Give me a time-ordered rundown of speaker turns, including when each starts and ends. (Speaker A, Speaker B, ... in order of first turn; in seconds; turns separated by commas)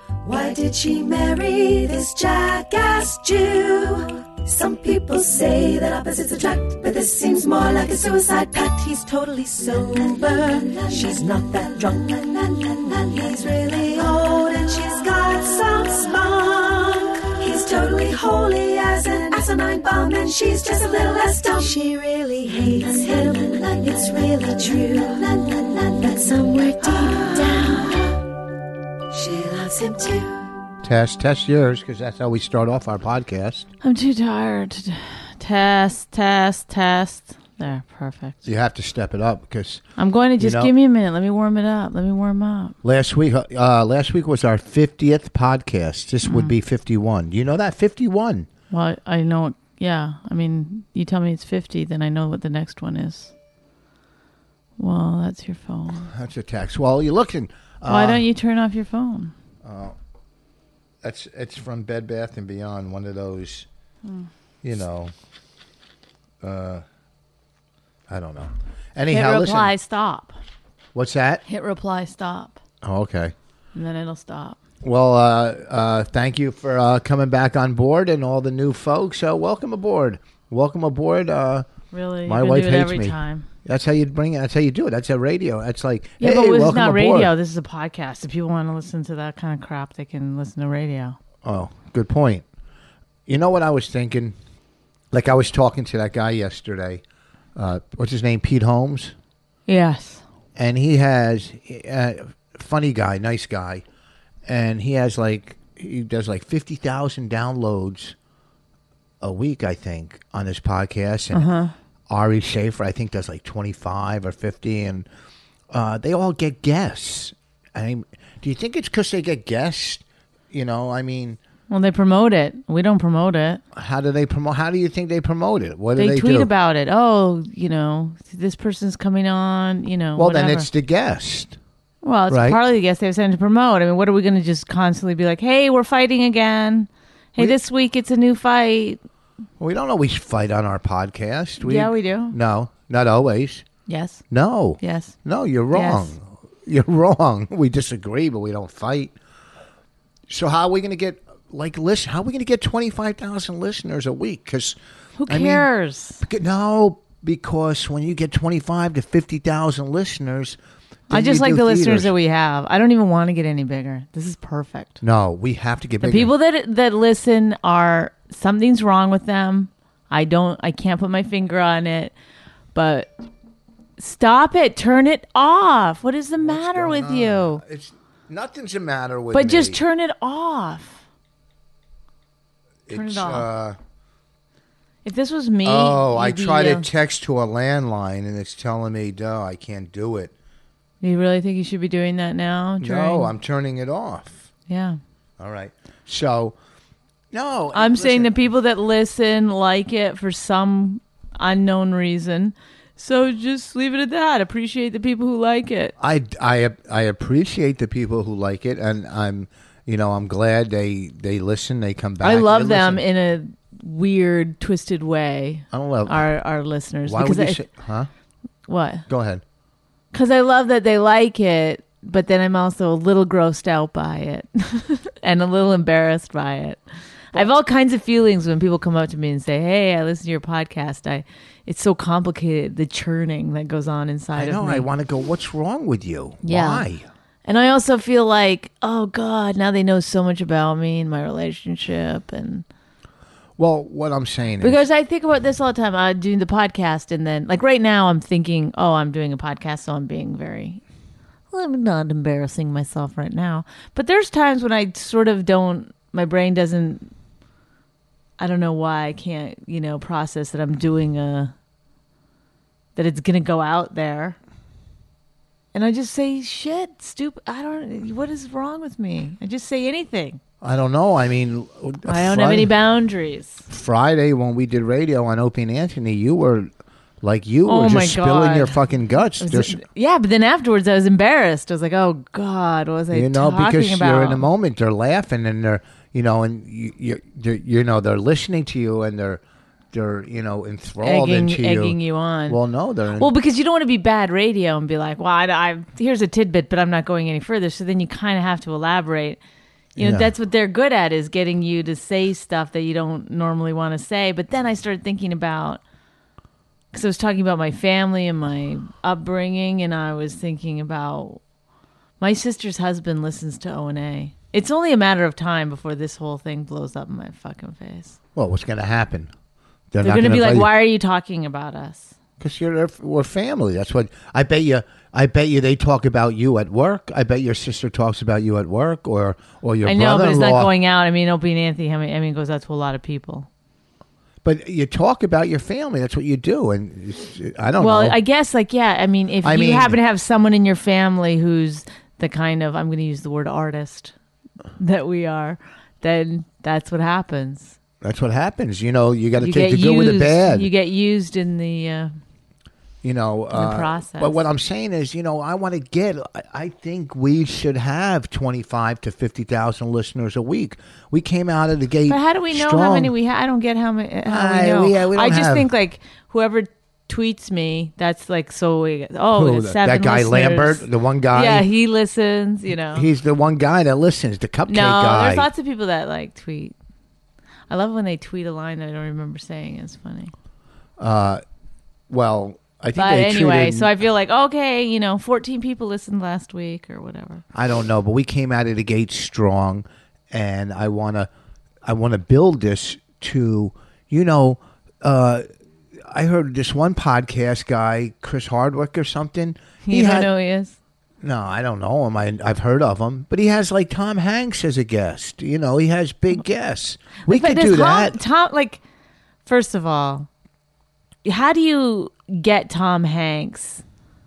Speaker A: 0.2-28.2, Speaker A: 29.1-30.5, Speaker B: 30.8-33.7, Speaker C: 33.8-38.4, Speaker B: 38.4-39.8, Speaker C: 40.0-42.8, Speaker B: 40.4-40.7, Speaker B: 42.8-48.5, Speaker C: 46.2-46.5, Speaker C: 48.7-53.3, Speaker C: 54.8-56.1, Speaker B: 56.1-58.2, Speaker C: 57.9-59.3, Speaker B: 59.6-60.0, Speaker B: 61.0-63.7, Speaker B: 64.6-65.1, Speaker B: 66.4-66.8, Speaker B: 68.1-69.7, Speaker C: 69.1-70.4, Speaker B: 71.0-71.4, Speaker C: 71.5-72.6, Speaker B: 72.8-73.3, Speaker C: 73.8-74.6, Speaker B: 74.8-81.7, Speaker C: 81.9-83.5, Speaker B: 82.3-87.3, Speaker C: 86.2-91.2, Speaker B: 91.4-92.5, Speaker B: 93.3-94.3, Speaker B: 95.1-97.0, Speaker B: 97.6-99.1, Speaker C: 99.7-100.2, Speaker B: 100.6-103.8, Speaker B: 104.5-108.2, Speaker B: 109.2-111.5, Speaker C: 111.3-111.7, Speaker B: 112.1-115.1, Speaker B: 115.7-121.4, Speaker C: 121.7-123.6, Speaker B: 123.8-126.5, Speaker C: 126.0-130.7, Speaker B: 130.2-131.6, Speaker C: 132.0-139.0, Speaker B: 132.3-132.6, Speaker B: 139.6-143.7, Speaker C: 141.6-142.3, Speaker C: 143.9-144.2, Speaker B: 144.3-149.1, Speaker C: 144.8-145.1, Speaker C: 145.7-146.1, Speaker B: 150.3-154.8, Speaker C: 155.2-156.2, Speaker B: 155.3-155.7, Speaker B: 156.2-160.6, Speaker B: 161.1-162.1, Speaker C: 161.1-165.0, Speaker B: 165.0-166.3, Speaker C: 166.0-172.1, Speaker C: 172.7-173.1, Speaker C: 174.0-177.6, Speaker B: 176.4-179.8, Speaker C: 179.3-181.0, Speaker B: 182.9-183.8, Speaker C: 182.9-183.5, Speaker C: 185.1-186.9, Speaker B: 185.7-190.3, Speaker C: 191.0-193.3, Speaker B: 192.8-194.5, Speaker C: 194.7-195.0, Speaker B: 195.4-196.6, Speaker B: 197.3-198.3, Speaker C: 197.7-205.9, Speaker B: 206.0-213.0, Speaker C: 212.2-217.6, Speaker B: 215.7-216.3, Speaker B: 217.1-218.1, Speaker C: 218.7-219.1, Speaker B: 219.1-219.4, Speaker C: 220.1-226.8, Speaker C: 227.3-234.9, Speaker B: 234.3-237.1, Speaker C: 236.4-236.8, Speaker C: 237.5-242.7, Speaker B: 243.6-244.8, Speaker C: 244.6-250.8, Speaker C: 251.5-257.1, Speaker C: 258.4-261.5, Speaker C: 263.0-264.4, Speaker C: 265.7-270.4, Speaker B: 270.6-272.7, Speaker C: 272.1-273.7, Speaker B: 273.7-276.7, Speaker B: 277.2-279.8, Speaker C: 277.7-284.4, Speaker B: 283.1-293.3, Speaker C: 291.0-292.6, Speaker C: 293.2-299.4, Speaker B: 300.0-300.3, Speaker C: 300.0-305.8, Speaker C: 306.9-311.4, Speaker C: 312.2-318.2, Speaker B: 318.4-319.3, Speaker B: 319.9-320.7, Speaker C: 320.0-322.1, Speaker B: 322.4-330.7, Speaker C: 329.8-333.5, Speaker B: 334.4-338.2, Speaker C: 337.8-344.1, Speaker B: 339.4-340.0, Speaker C: 344.8-347.8, Speaker B: 348.0-350.7, Speaker C: 349.4-352.1, Speaker B: 353.0-363.1, Speaker C: 353.5-354.4, Speaker C: 362.1-373.1, Speaker B: 364.3-365.7, Speaker B: 369.3-371.7, Speaker B: 372.9-375.5, Speaker C: 374.7-376.7, Speaker C: 377.7-380.3, Speaker B: 381.0-381.4, Speaker B: 382.1-383.9, Speaker C: 383.0-387.4, Speaker B: 387.5-391.3, Speaker B: 391.9-395.4, Speaker B: 396.1-400.3, Speaker C: 399.8-400.8, Speaker B: 401.2-408.2, Speaker C: 407.3-408.8, Speaker C: 409.4-410.3, Speaker C: 411.2-413.8